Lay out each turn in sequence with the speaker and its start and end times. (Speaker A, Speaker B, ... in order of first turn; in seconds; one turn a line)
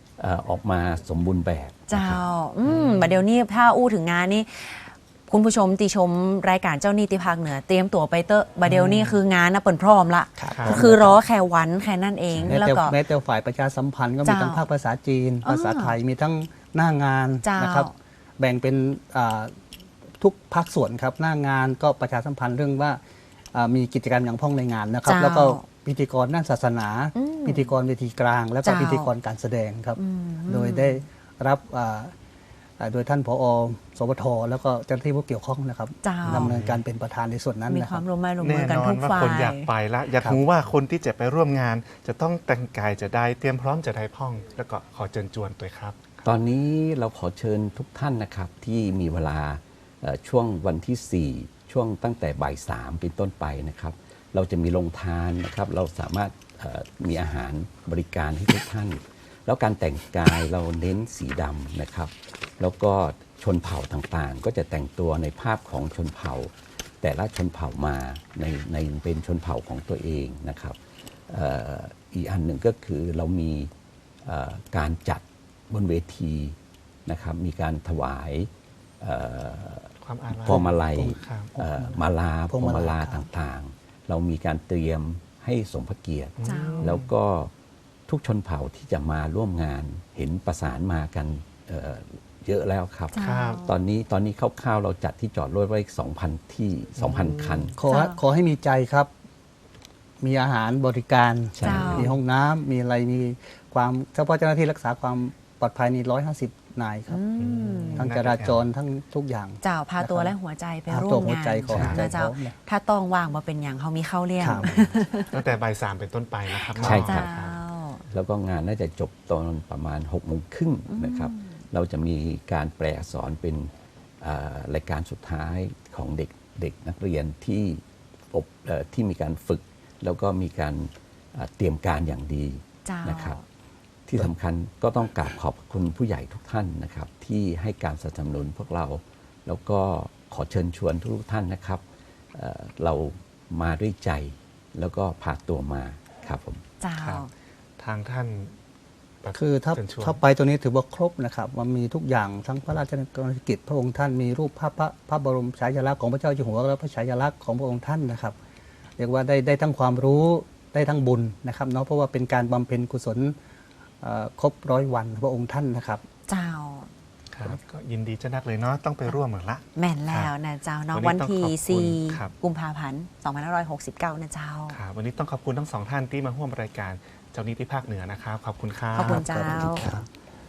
Speaker A: 0.2-2.2
Speaker B: 1.9-13.0
Speaker C: 2.6-3.2
Speaker C: 8.6-9.2
Speaker D: 10.4-11.2
Speaker C: 10.5-10.8
Speaker C: 12.3-12.6
Speaker D: 12.4-19.5
Speaker B: 14.2-14.6
Speaker B: 15.4-15.9
Speaker B: 17.4-17.9
Speaker D: 20.2-23.0
Speaker D: 23.5-32.1
Speaker B: 25.0-25.6
Speaker B: 27.1-27.7
Speaker B: 28.6-29.1
Speaker B: 29.9-31.0
Speaker D: 32.8-38.0
Speaker B: 36.0-36.5
Speaker C: 36.2-36.8
Speaker B: 37.7-39.7
Speaker C: 38.4-46.2
Speaker A: 46.2-73.7
Speaker A: 74.2-78.5
Speaker A: 79.0-87.5
Speaker C: 80.0-81.5
Speaker D: 80.4-83.3
Speaker C: 86.4-87.0
Speaker B: 86.4-87.0
Speaker A: 88.1-97.7
Speaker B: 93.1-93.7
Speaker C: 93.2-93.6
Speaker C: 97.0-97.7
Speaker D: 97.8-99.1
Speaker B: 97.8-98.2
Speaker D: 100.2-107.2
Speaker A: 101.5-102.1
Speaker B: 101.6-102.1
Speaker B: 107.1-108.1
Speaker C: 107.4-108.7
Speaker D: 107.9-110.3
Speaker B: 109.6-115.4
Speaker D: 110.9-112.5
Speaker C: 111.7-112.1
Speaker A: 111.7-112.0
Speaker D: 114.4-114.8
Speaker C: 115.3-117.5
Speaker B: 116.5-118.0
Speaker A: 116.8-117.3
Speaker A: 118.1-133.4
Speaker B: 120.9-121.6
Speaker B: 132.8-133.4
Speaker A: 134.1-146.6
Speaker B: 146.8-147.3
Speaker C: 147.0-147.3
Speaker C: 147.8-148.6
Speaker C: 149.2-150.2
Speaker D: 149.3-158.3
Speaker D: 159.0-163.3
Speaker D: 164.0-166.0
Speaker B: 166.3-166.9
Speaker C: 167.3-170.3
Speaker B: 169.8-174.8
Speaker C: 170.9-172.3
Speaker C: 174.7-180.0
Speaker B: 178.9-179.9
Speaker D: 179.0-180.1